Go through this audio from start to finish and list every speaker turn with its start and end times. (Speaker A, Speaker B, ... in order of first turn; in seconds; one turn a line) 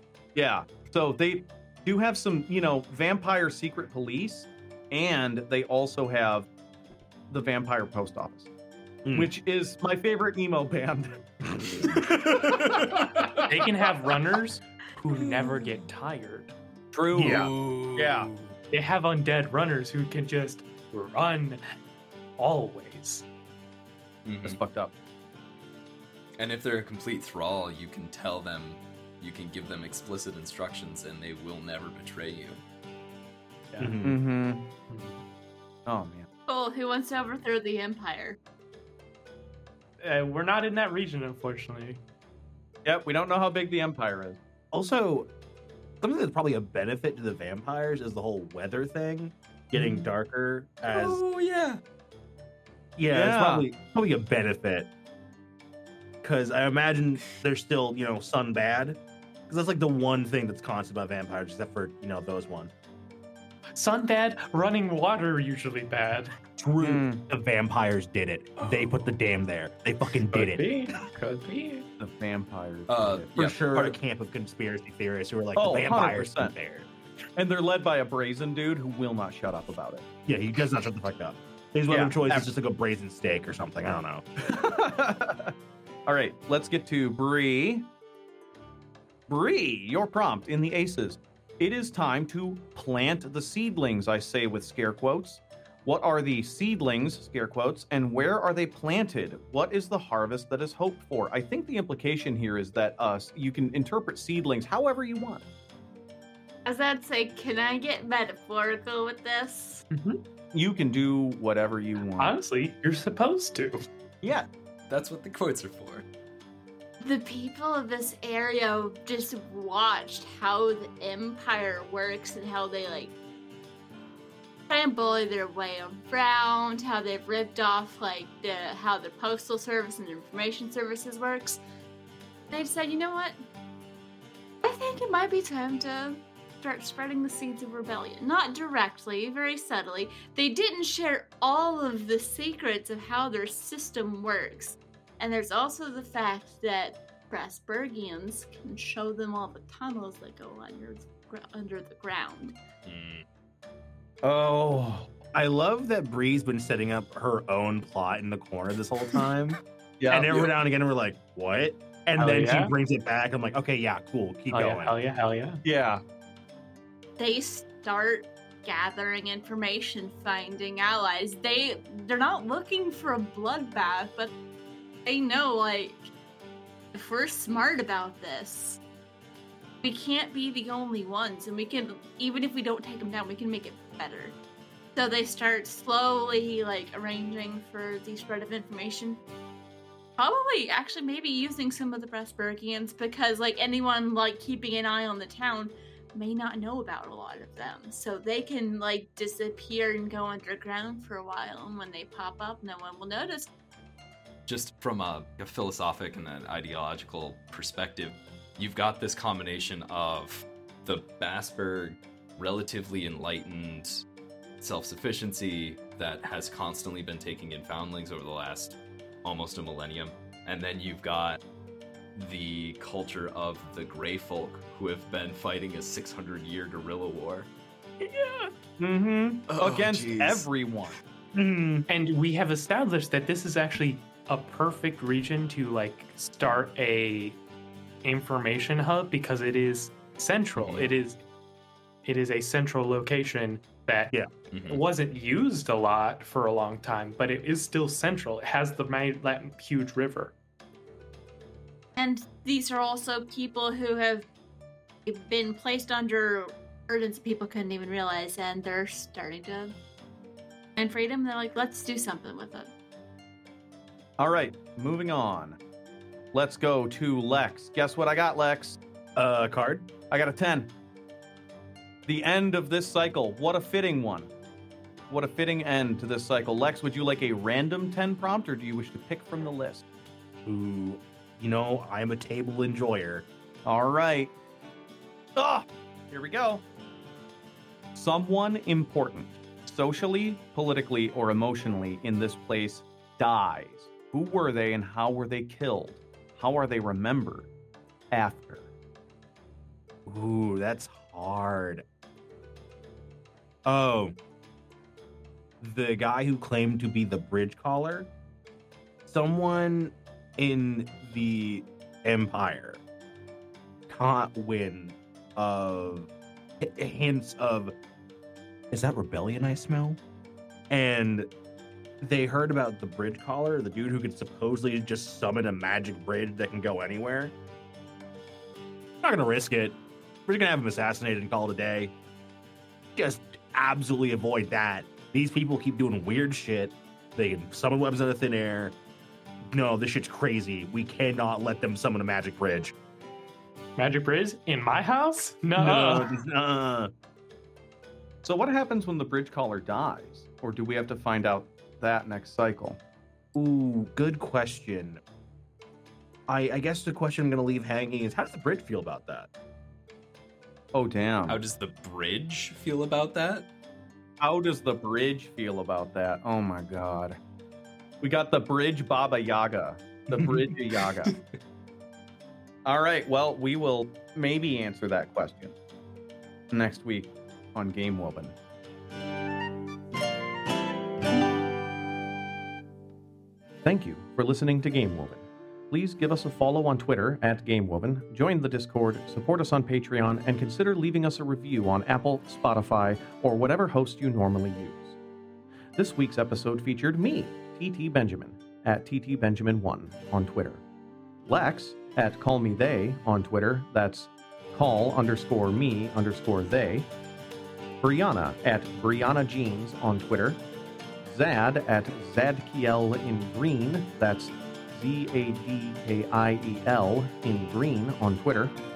Speaker A: 0.3-6.5
Speaker A: 7.3-8.5
Speaker A: 9.1-11.9
Speaker B: 12.2-13.4
Speaker C: 13.4-16.5
Speaker A: 16.9-18.3
Speaker B: 17.2-17.5
Speaker D: 17.2-18.5
Speaker C: 18.7-21.6
Speaker C: 22.4-23.3
Speaker D: 24.2-24.6
Speaker A: 24.4-24.9
Speaker D: 26.4-32.6
Speaker C: 33.7-34.0
Speaker B: 33.8-34.2
Speaker A: 34.0-34.6
Speaker C: 34.9-35.2
Speaker A: 35.9-36.3
Speaker E: 36.5-38.4
Speaker C: 40.0-42.0
Speaker A: 42.9-44.4
Speaker B: 44.7-45.3
Speaker B: 46.0-51.2
Speaker D: 50.9-51.8
Speaker B: 53.0-54.9
Speaker A: 53.1-53.6
Speaker B: 56.2-62.7
Speaker C: 63.8-66.3
Speaker B: 66.6-70.6
Speaker A: 66.8-67.2
Speaker C: 70.3-71.8
Speaker A: 72.0-74.0
Speaker D: 72.9-73.8
Speaker B: 73.4-76.9
Speaker A: 75.5-76.5
Speaker A: 77.4-80.0
Speaker B: 80.3-84.3
Speaker A: 81.9-82.5
Speaker A: 84.5-85.5
Speaker A: 86.1-87.9
Speaker A: 89.3-105.4
Speaker E: 106.7-109.8
Speaker C: 109.9-110.2
Speaker A: 110.5-112.3
Speaker C: 112.2-113.8
Speaker D: 114.9-116.0
Speaker E: 117.0-123.1
Speaker E: 124.7-131.6
Speaker E: 132.5-133.4
Speaker E: 134.6-152.6
Speaker D: 152.9-153.2
Speaker A: 154.2-155.1
Speaker B: 155.3-159.6
Speaker A: 160.0-160.6
Speaker B: 160.1-164.9
Speaker C: 162.2-162.7
Speaker C: 164.5-165.6
Speaker A: 165.6-166.0
Speaker E: 167.2-174.3
Speaker E: 175.1-176.1
Speaker E: 176.9-178.8
Speaker E: 179.8-184.3
Speaker E: 185.0-189.2
Speaker E: 190.2-203.5
Speaker D: 204.5-214.0
Speaker D: 214.6-221.4
Speaker D: 222.2-227.5
Speaker A: 228.8-231.0
Speaker D: 229.5-230.5
Speaker B: 231.4-231.9
Speaker C: 231.9-237.4
Speaker C: 238.0-241.2
Speaker D: 240.6-240.9
Speaker C: 242.1-244.1
Speaker D: 244.5-244.8
Speaker C: 244.7-250.3
Speaker E: 252.0-254.3
Speaker E: 255.1-259.7
Speaker E: 260.8-262.7
Speaker A: 264.2-265.6
Speaker A: 266.3-268.8
Speaker B: 269.2-269.9
Speaker A: 270.1-270.7
Speaker A: 272.1-274.3
Speaker A: 275.1-279.9
Speaker B: 280.4-283.3
Speaker A: 283.6-284.3
Speaker A: 285.4-286.6
Speaker A: 287.9-297.5
Speaker A: 298.1-298.7
Speaker B: 300.1-301.9
Speaker B: 303.7-304.1
Speaker B: 305.6-308.1
Speaker B: 309.1-312.8
Speaker B: 313.9-316.1
Speaker B: 316.6-317.7
Speaker B: 318.7-320.0
Speaker B: 320.7-321.3
Speaker B: 322.0-327.3
Speaker B: 329.0-331.9
Speaker B: 333.0-338.8
Speaker B: 339.5-342.7
Speaker C: 343.8-346.1
Speaker B: 345.6-346.9
Speaker A: 348.2-352.8
Speaker B: 353.4-355.0
Speaker B: 356.3-359.3
Speaker A: 360.7-361.4
Speaker D: 361.3-363.5
Speaker A: 364.2-367.2
Speaker A: 368.0-371.1
Speaker A: 372.6-375.6
Speaker A: 376.5-378.4
Speaker A: 383.6-395.0
Speaker A: 395.8-400.6
Speaker A: 401.3-406.9
Speaker A: 407.8-410.4
Speaker A: 411.0-418.6